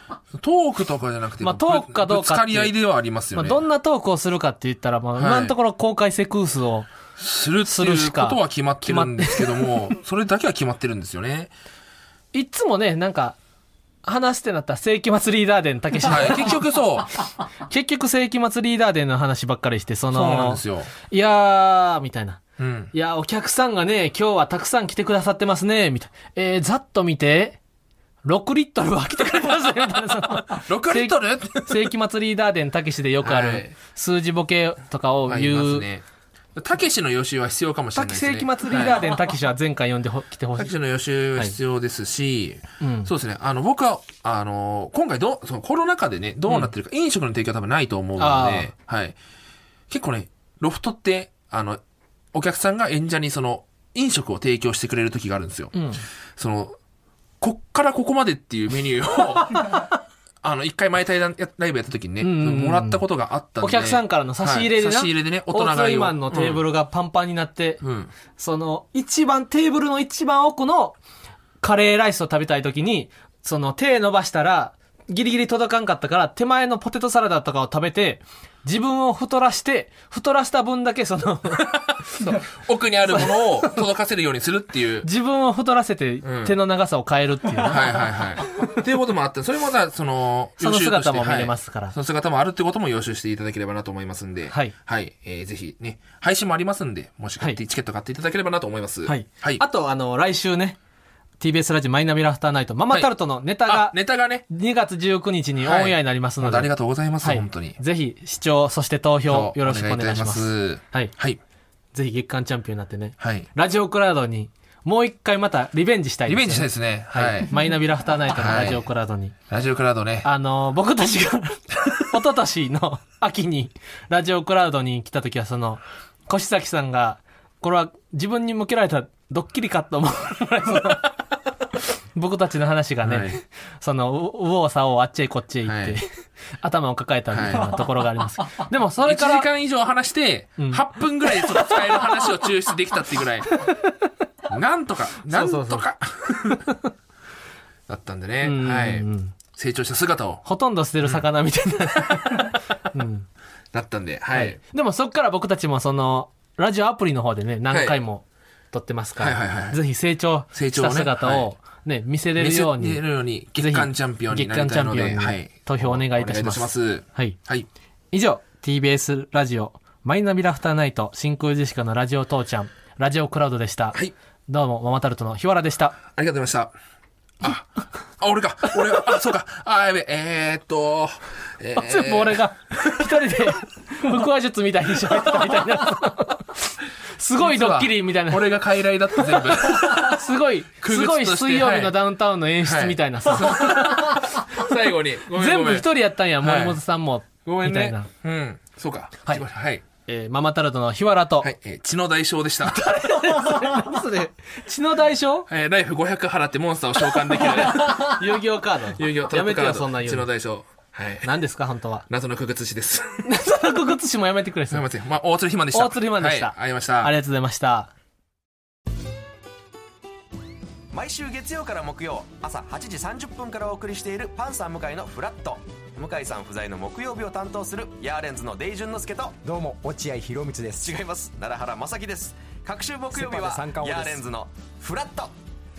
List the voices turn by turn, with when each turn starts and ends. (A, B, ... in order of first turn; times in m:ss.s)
0:00.3-0:03.6 A
0:01.4-0:02.7 B
0:03.3-0:06.9 B
0:05.2-0:05.6 A
0:07.2-0:11.5 A
0:07.6-0:09.9 B
0:12.3-0:13.4 B
0:14.0-0:16.6 B
0:16.0-0:17.1 A
0:17.6-0:22.4 B
0:20.1-0:20.9 A
0:22.6-0:22.9 A
0:22.9-0:27.6 B
0:28.2-0:35.9 B
0:30.6-0:31.9 A
0:33.2-0:33.7 A
0:35.3-0:36.0 A
0:36.6-0:39.0 A
0:37.9-0:40.7 B
0:40.6-0:49.2 A
0:42.8-0:43.1 B
0:48.2-0:48.7 B
0:49.9-0:51.8 A
0:52.3-0:55.7 A
0:55.7-0:56.0 B
0:56.4-0:56.8 A
0:57.4-1:06.6 A
1:02.2-1:03.0 B
1:03.6-1:07.8 B
1:07.8-1:08.1 A
1:08.3-1:11.0 B
1:11.6-1:22.4 B
1:21.6-1:25.1 A
1:23.1-1:23.8 B
1:25.0-1:28.1 B
1:26.2-1:26.6 A
1:27.6-1:39.6 A
1:30.6-1:32.0 B
1:34.5-1:34.7 B
1:39.0-1:40.8 B
1:41.4-1:51.1 B
1:42.9-1:44.4 A
1:45.6-1:47.8 A
1:49.3-1:51.4 A
1:51.9-1:59.3 B
1:53.2-1:53.5 A
1:56.3-1:57.6 A
1:58.2-1:58.9 A
1:59.5-2:00.3 A
2:00.2-2:11.1 B
2:12.1-2:16.1 B
2:13.0-2:13.4 A
2:15.6-2:16.0 A
2:16.6-2:19.5 B
2:17.3-2:17.9 A
2:19.0-2:23.6 A
2:20.6-2:20.8 B
2:21.4-2:21.8 B
2:24.5-2:26.7 A
2:25.3-2:25.9 B
2:26.5-2:26.7 B
2:27.9-2:30.4 A
2:28.4-2:29.3 B
2:30.4-2:33.3 B
2:33.7-2:34.6 A
2:34.3-2:43.0 B
2:37.7-2:38.0 A
2:39.2-2:39.8 A
2:40.5-2:41.5 A
2:42.4-2:47.7 A
2:43.6-2:47.4 B
2:48.1-2:56.0 B
2:56.1-2:56.7 A
2:57.4-3:02.4 A
3:01.8-3:08.5 B
3:07.4-3:10.2 A
3:09.2-3:14.4 B
3:10.8-3:12.0 A
3:12.6-3:15.9 A
3:15.3-3:18.1 B
3:16.4-3:16.8 A
3:17.4-3:19.8 A
3:20.0-3:21.5 B
3:21.4-3:23.8 A
3:22.7-3:25.5 B
3:25.5-3:28.3 A
3:27.4-3:30.3 B
3:28.9-3:31.3 A
3:31.2-3:32.0 B
3:32.1-3:33.3 A
3:33.2-3:34.8 B
3:34.7-3:37.1 A
3:35.7-3:37.9 B
3:40.9-3:49.4 C
3:49.4-3:51.0 D
3:50.8-3:55.3 C
3:53.1-3:54.2 D